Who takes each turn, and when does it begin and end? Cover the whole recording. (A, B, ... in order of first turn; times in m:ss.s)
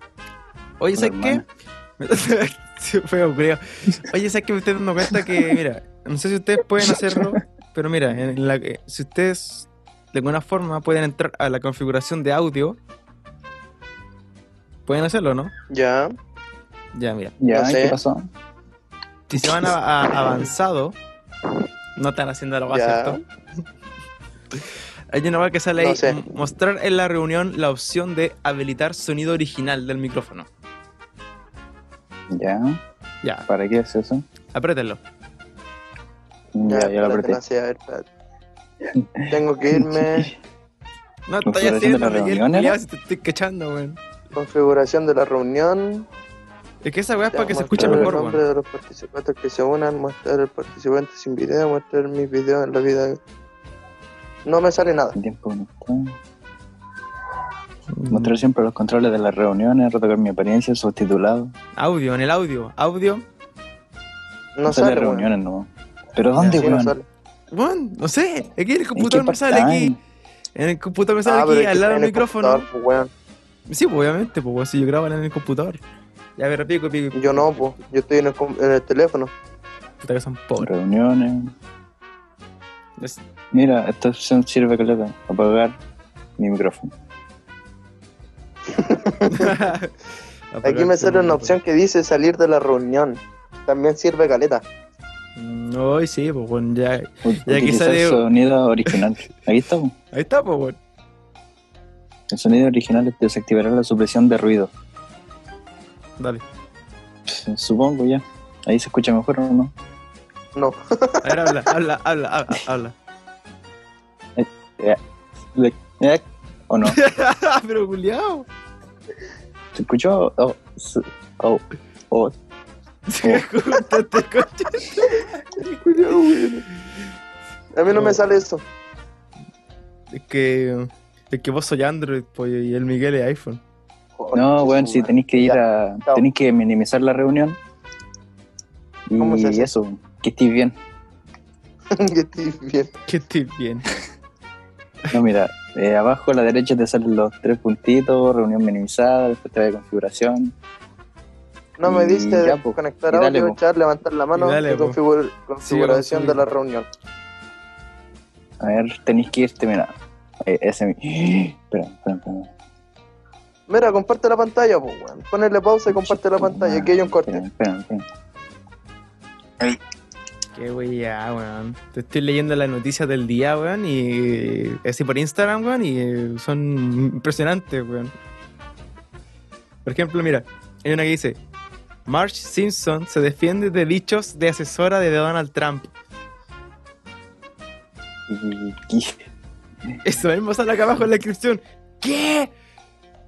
0:00.8-0:01.4 A
0:01.0-0:01.4 B
0:02.0-0:12.8 A
0:06.8-0:07.4 B
0:14.9-0:15.5 A
0:15.7-0:16.1 C
0:16.9-0:17.4 A
0:17.4-0:18.3 B
0:17.5-0:18.0 C
0:19.3-0:21.0 A
0:22.0-0:23.2 A
0:22.7-0:23.2 C
0:25.1-0:30.5 A
0:25.8-0:26.2 C
0:32.3-0:32.8 B
0:33.5-0:34.3 B
0:34.5-0:35.0 A
0:36.6-0:37.4 B
0:36.6-0:38.1 C
0:38.8-0:40.3 B
0:39.3-0:40.3 C
0:41.3-0:44.0 A
0:41.4-0:42.8 B
0:44.4-0:46.1 C
0:46.8-0:48.4 A
0:47.3-0:53.2 C
0:47.8-0:48.1 B
0:54.5-0:55.2 C
0:55.1-0:56.2 B
0:57.9-0:58.3 A
0:58.1-1:01.5 B
1:01.8-1:03.2 A
1:04.6-1:05.3 C
1:04.7-1:06.9 B
1:06.5-1:07.1 C
1:07.5-1:09.9 A
1:09.0-1:10.0 B
1:10.6-1:12.7 A
1:11.2-1:13.1 C
1:13.7-1:15.8 A
1:16.4-1:17.7 A
1:17.1-1:19.3 C
1:20.0-1:20.7 A
1:20.6-1:21.5 B
1:23.5-1:25.8 B
1:26.4-1:26.9 B
1:28.7-1:29.6 C
1:29.3-1:29.9 A
1:30.5-1:31.6 A
1:30.6-1:34.6 C
1:35.4-1:38.2 A
1:37.2-1:40.0 B
1:40.1-1:40.8 A
1:42.3-1:44.7 B
1:47.3-1:49.7 B
1:50.6-1:51.5 C
1:51.2-1:52.9 A
1:54.4-1:57.0 B
1:56.9-1:58.5 A
1:59.7-2:02.4 B
2:03.1-2:05.8 A
2:05.8-2:06.6 C
2:07.8-2:08.6 C
2:07.9-2:08.2 A
2:10.1-2:13.6 A
2:14.2-2:16.2 C
2:14.3-2:17.6 B
2:19.1-2:20.8 B
2:19.2-2:19.7 C
2:21.9-2:22.9 C
2:23.1-2:23.9 A
2:25.1-2:30.6 B
2:31.8-2:36.9 C
2:31.8-2:33.6 B
2:34.3-2:35.0 A
2:35.6-2:36.4 A
2:38.6-2:42.5 B
2:43.7-2:47.4 C
2:45.9-2:48.1 B
2:50.6-2:58.1 A
2:59.8-3:01.4 A
3:02.1-3:05.9 A
3:08.3-3:09.2 B
3:10.0-3:12.5 A